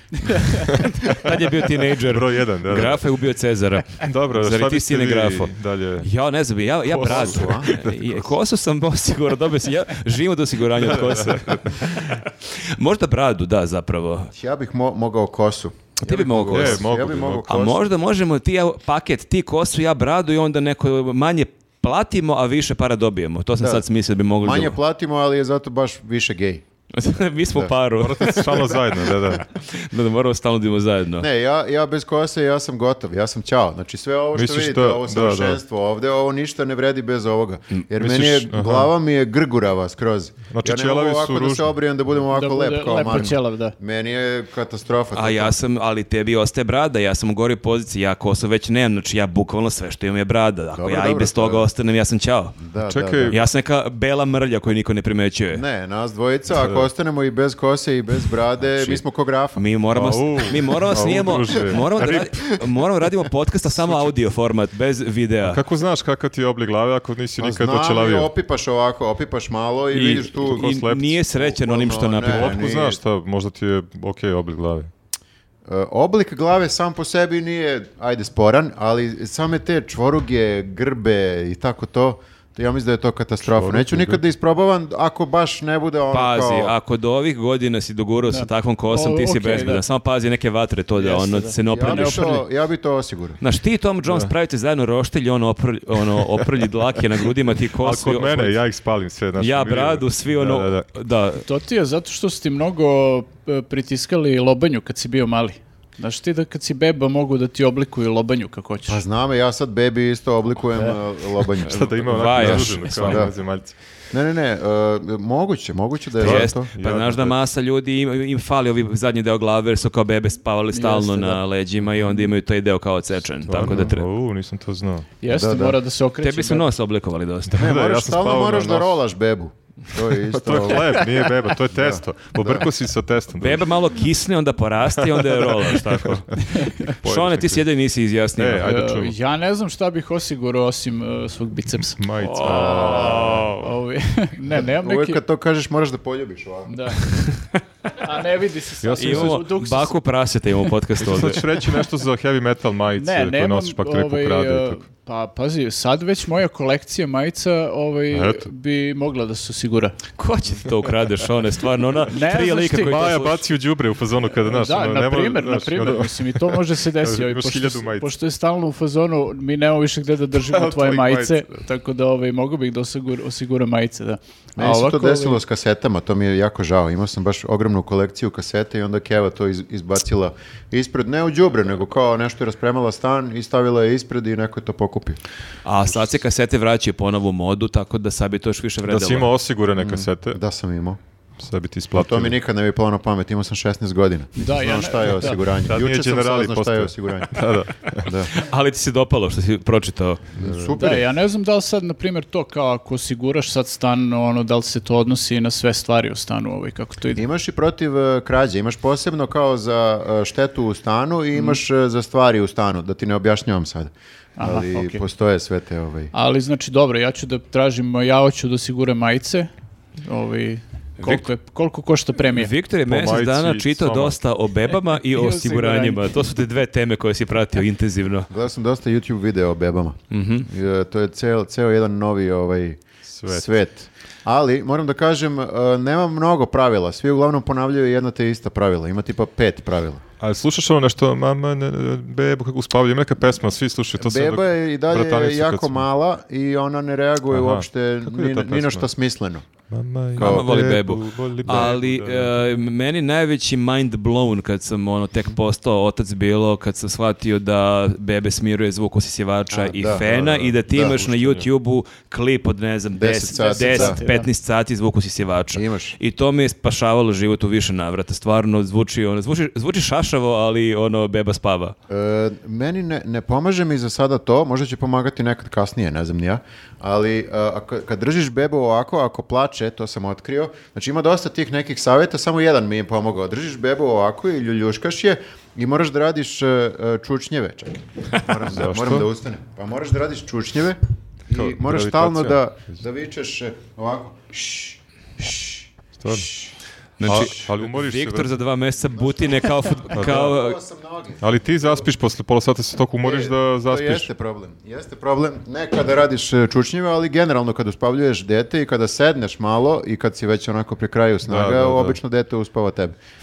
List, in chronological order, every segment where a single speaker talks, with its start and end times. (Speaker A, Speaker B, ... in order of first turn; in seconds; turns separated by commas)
Speaker A: 0.2-0.7, Speaker B: 0.6-1.3, Speaker C: 1.0-14.3, Speaker B: 2.0-3.0, Speaker B: 4.0-6.1, Speaker B: 6.8-7.9, Speaker D: 7.0-7.8, Speaker B: 10.8-12.2, Speaker D: 14.3-17.8, Speaker C: 16.0-16.9, Speaker B: 16.5-17.4, Speaker C: 17.5-24.8, Speaker D: 23.6-23.8, Speaker D: 24.4-26.6, Speaker C: 26.9-31.3, Speaker B: 28.0-29.4, Speaker D: 31.2-45.5, Speaker B: 34.3-35.6, Speaker B: 38.0-38.9, Speaker B: 40.5-41.7, Speaker A: 42.3-43.8, Speaker C: 45.1-52.6, Speaker D: 50.7-51.7, Speaker D: 52.6-53.4, Speaker B: 52.9-53.4, Speaker C: 53.3-55.6, Speaker D: 55.5-59.6, Speaker B: 56.5-56.9, Speaker C: 58.7-59.0, Speaker C: 59.5-65.6, Speaker B: 59.9-62.3, Speaker B: 65.4-68.3, Speaker D: 67.4-70.7, Speaker C: 69.9-72.6, Speaker B: 70.4-71.2, Speaker D: 71.3-73.0, Speaker B: 72.2-74.9, Speaker D: 75.7-86.8, Speaker B: 83.4-84.2, Speaker C: 86.1-92.4, Speaker A: 88.3-89.8, Speaker A: 91.0-92.4, Speaker D: 91.6-93.4, Speaker C: 93.4-98.6, Speaker B: 94.0-94.3, Speaker B: 96.1-96.5, Speaker B: 97.8-100.8, Speaker C: 99.4-101.4, Speaker A: 101.4-109.0, Speaker D: 108.9-113.3, Speaker B: 111.6-113.8, Speaker C: 111.7-113.3, Speaker D: 114.1-116.7, Speaker B: 116.2-117.3, Speaker C: 116.2-124.1, Speaker A: 120.7-121.4, Speaker B: 123.5-125.1, Speaker A: 125.2-126.7, Speaker D: 125.3-125.8, Speaker C: 126.2-127.6, Speaker B: 127.5-128.9, Speaker D: 127.6-131.2, Speaker B: 130.2-133.7, Speaker D: 131.7-132.7, Speaker C: 133.4-138.8, Speaker B: 135.0-137.6, Speaker A: 136.4-136.9, Speaker B: 138.4-139.1, Speaker A: 138.6-145.2, Speaker B: 142.0-143.7, Speaker C: 142.2-143.5, Speaker D: 142.4-143.5, Speaker D: 144.5-146.8, Speaker A: 146.7-147.0, Speaker C: 147.0-147.6, Speaker A: 147.9-150.0, Speaker B: 148.8-149.4, Speaker C: 149.0-151.5, Speaker B: 151.0-154.8, Speaker A: 153.0-159.9, Speaker B: 158.1-158.4, Speaker C: 160.2-163.4, Speaker A: 162.1-163.0, Speaker B: 162.8-168.1, Speaker A: 164.4-175.4, Speaker B: 170.4-171.5, Speaker D: 174.6-185.2, Speaker C: 185.6-189.3, Speaker B: 188.9-190.4, Speaker D: 189.8-191.0, Speaker B: 191.4-192.3, Speaker D: 191.9-197.4, Speaker A: 194.4-195.4, Speaker B: 195.7-198.1, Speaker D: 198.0-198.3, Speaker C: 198.3-200.3, Speaker D: 200.3-201.0, Speaker A: 200.8-207.2, Speaker D: 207.1-216.1, Speaker A: 214.4-215.0, Speaker A: 216.1-219.5, Speaker A: 220.0-222.5, Speaker C: 221.0-221.3, Speaker C: 222.3-228.3, Speaker B: 222.9-224.2, Speaker A: 225.1-226.2, Speaker D: 228.3-240.0, Speaker C: 230.1-230.5, Speaker B: 233.1-233.4, Speaker B: 240.2-245.8, Speaker D: 244.0-249.5, Speaker B: 247.3-248.9, Speaker B: 249.7-252.3, Speaker D: 250.2-250.5, Speaker C: 250.2-271.7, Speaker D: 251.4-251.8, Speaker D: 259.5-260.0, Speaker B: 259.8-261.5, Speaker D: 260.6-261.1, Speaker D: 262.9-264.0, Speaker A: 263.3-264.3, Speaker D: 265.5-265.9, Speaker D: 271.9-296.2, Speaker B: 288.5-289.1, Speaker B: 291.3-292.4, Speaker B: 296.0-296.3, Speaker C: 297.0-300.6, Speaker B: 297.0-298.4, Speaker D: 299.0-299.3, Speaker D: 299.9-301.9, Speaker B: 299.9-300.3, Speaker B: 301.2-304.1, Speaker D: 303.0-312.9, Speaker B: 311.3-312.0